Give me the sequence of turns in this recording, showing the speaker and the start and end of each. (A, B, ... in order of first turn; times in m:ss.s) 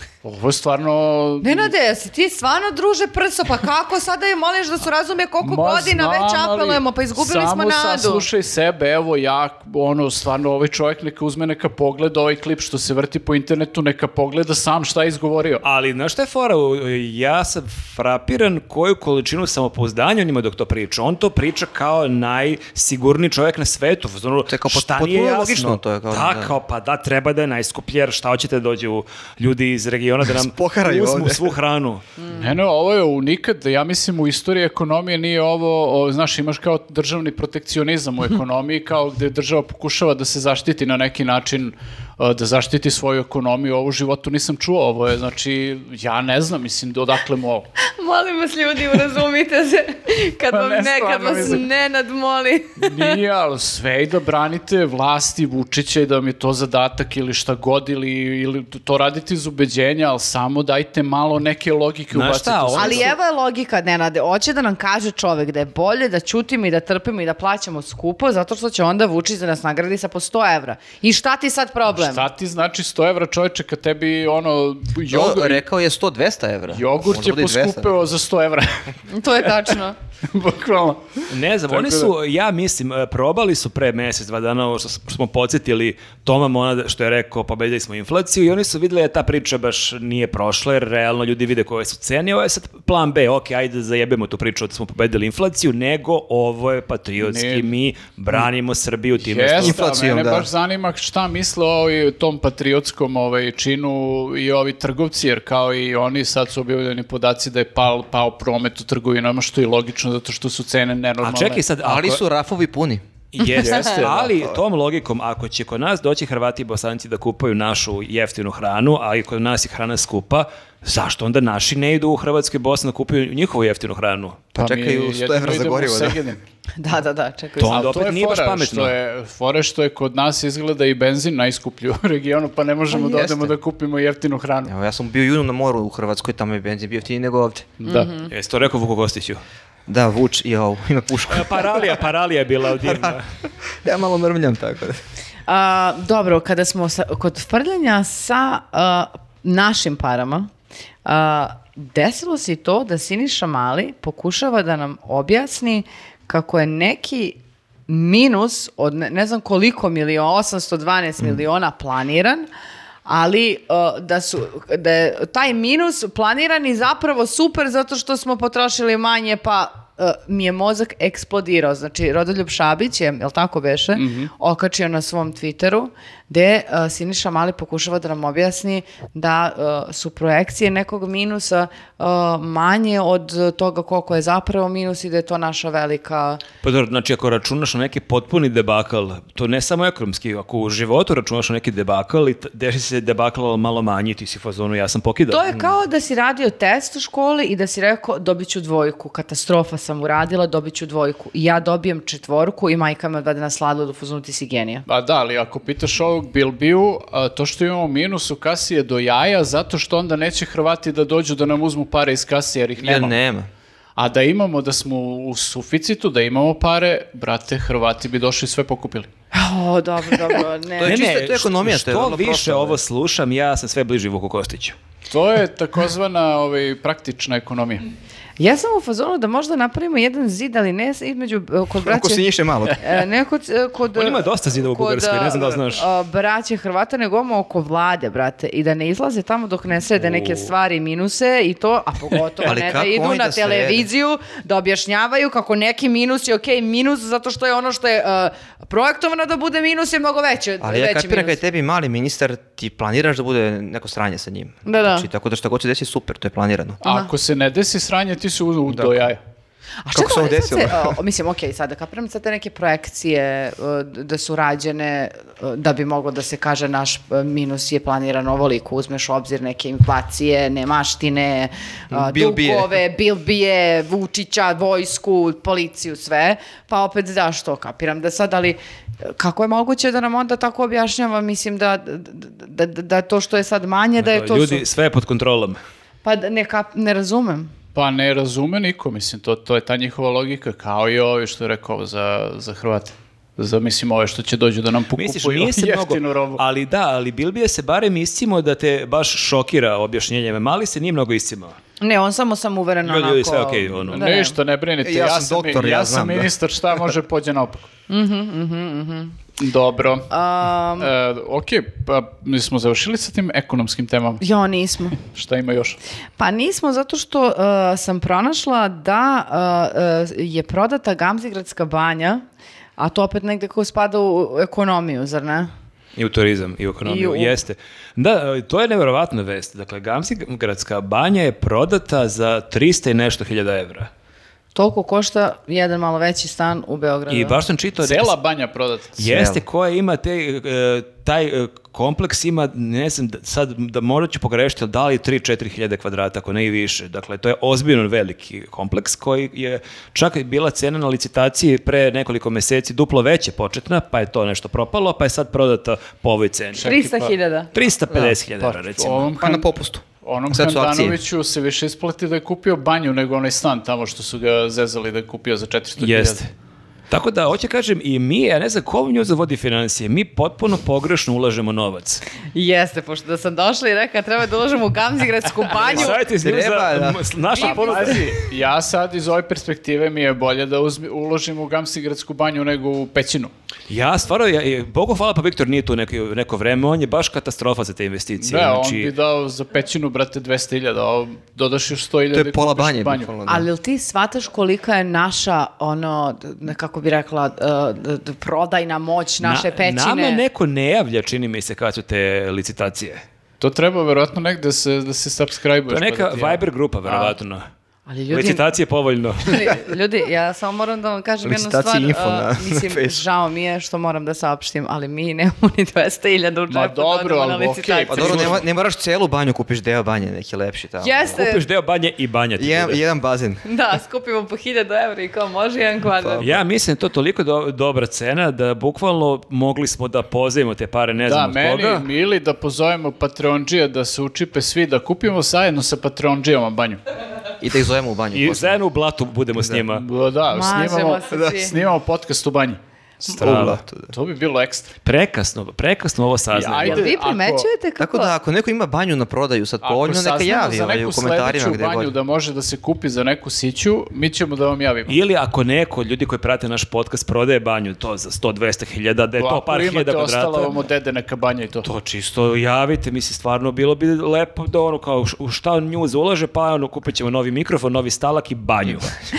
0:00.2-0:01.7 A
0:01.4-0:08.2 B
0:05.4-0:15.6 A
0:15.6-0:32.0 C
0:24.5-0:26.5 D
0:30.2-0:31.5 D
0:32.3-0:47.7 A
0:47.8-0:53.2 B
0:50.5-0:51.6 A
0:52.8-1:03.1 A
1:02.1-1:03.1 C
1:02.7-1:12.3 B
1:11.9-1:15.6 A
1:15.1-1:17.9 D
1:16.7-1:18.9 A
1:19.1-1:19.9 B
1:20.3-1:22.1 A
1:21.3-1:39.8 C
1:37.2-1:37.7 A
1:39.2-1:51.6 A
1:39.6-1:40.5 D
1:51.2-1:52.2 C
1:51.8-1:53.0 D
1:53.3-2:04.4 C
1:53.6-1:54.3 A
1:53.7-1:54.0 B
2:04.5-2:06.2 D
2:04.6-2:06.4 A
2:06.8-2:07.9 B
2:07.6-2:08.9 C
2:07.6-2:14.7 A
2:12.9-2:13.6 D
2:14.7-2:17.7 D
2:17.8-2:18.1 A
2:17.8-2:18.3 B
2:18.3-2:19.4 C
2:19.9-2:22.0 D
2:21.3-2:23.2 C
2:22.8-2:23.2 D
2:23.8-2:25.0 D
2:25.5-2:30.5 B
2:31.0-2:37.4 B
2:37.9-2:42.5 B
2:43.0-3:06.4 B
2:54.0-2:54.3 A
3:06.6-3:15.5 C
3:15.3-3:24.8 B
3:24.8-3:33.1 A
3:32.8-3:33.5 D
3:34.0-3:39.1 A
3:39.3-3:41.0 B
3:40.8-3:42.8 D
3:40.8-3:44.8 C
3:45.1-3:47.8 A
3:48.4-3:52.2 B
3:51.8-3:52.8 D
3:52.8-4:11.4 B
3:53.9-3:55.8 C
4:00.0-4:00.5 C
4:02.4-4:03.9 D
4:10.6-4:16.8 D
4:14.6-4:15.1 B
4:16.8-4:17.1 B
4:16.8-4:19.2 A
4:18.7-4:19.1 D
4:19.8-4:44.6 B
4:19.9-4:21.0 D
4:31.9-4:32.7 D
4:44.0-4:45.6 C
4:46.0-4:47.5 B
4:47.7-4:56.4 A
4:54.9-5:01.6 C
5:01.8-5:04.4 B
5:02.8-5:04.1 C
5:03.9-5:07.7 A
5:04.8-5:06.3 D
5:07.9-5:09.2 B
5:09.4-5:10.1 A
5:10.1-5:10.9 B
5:10.8-5:14.2 A
5:14.2-5:15.0 B
5:15.0-5:15.8 A
5:16.2-5:22.2 B
5:22.8-5:25.5 B
5:26.0-5:33.9 C
5:26.8-5:27.3 B
5:34.5-5:37.4 B
5:37.1-5:38.1 C
5:37.8-5:39.0 A
5:39.0-5:56.7 C
5:39.1-5:39.4 D
5:56.5-5:57.1 A
5:56.6-5:57.5 B
5:57.5-5:59.1 C
5:57.9-5:58.2 D
5:58.4-5:59.5 A
5:59.2-6:01.0 D
6:00.0-6:06.2 A
6:05.8-6:06.3 C
6:06.9-6:12.0 C
6:12.3-6:16.0 B
6:15.5-6:18.2 C
6:16.2-6:17.1 D
6:17.4-6:23.3 A
6:17.4-6:18.0 B
6:23.7-6:28.9 C
6:28.2-6:33.1 A
6:32.1-6:33.5 D
6:33.2-6:40.2 B
6:39.2-6:43.0 C
6:43.4-6:47.1 A
6:45.7-6:47.4 C
6:47.9-6:48.5 B
6:48.1-6:49.6 C
6:49.2-6:58.4 B
6:51.2-6:53.0 D
6:56.5-6:58.4 A
6:57.9-7:01.1 D
7:00.8-7:01.4 B
7:01.1-7:02.8 C
7:02.4-7:03.4 D
7:03.4-7:06.3 B
7:06.0-7:06.4 D
7:06.2-7:11.9 C
7:11.0-7:16.8 A
7:17.4-7:18.6 D
7:18.1-7:19.8 C
7:19.7-7:22.6 A
7:20.3-7:21.5 B
7:21.1-7:21.4 D
7:23.1-7:23.9 D
7:23.1-7:24.7 A
7:23.2-7:23.6 C
7:24.8-7:26.9 C
7:26.3-7:27.5 A
7:26.6-7:28.1 B
7:27.8-7:31.9 D
7:29.6-7:35.0 A
7:34.9-7:40.6 C
7:39.2-7:41.7 A
7:41.6-7:48.9 C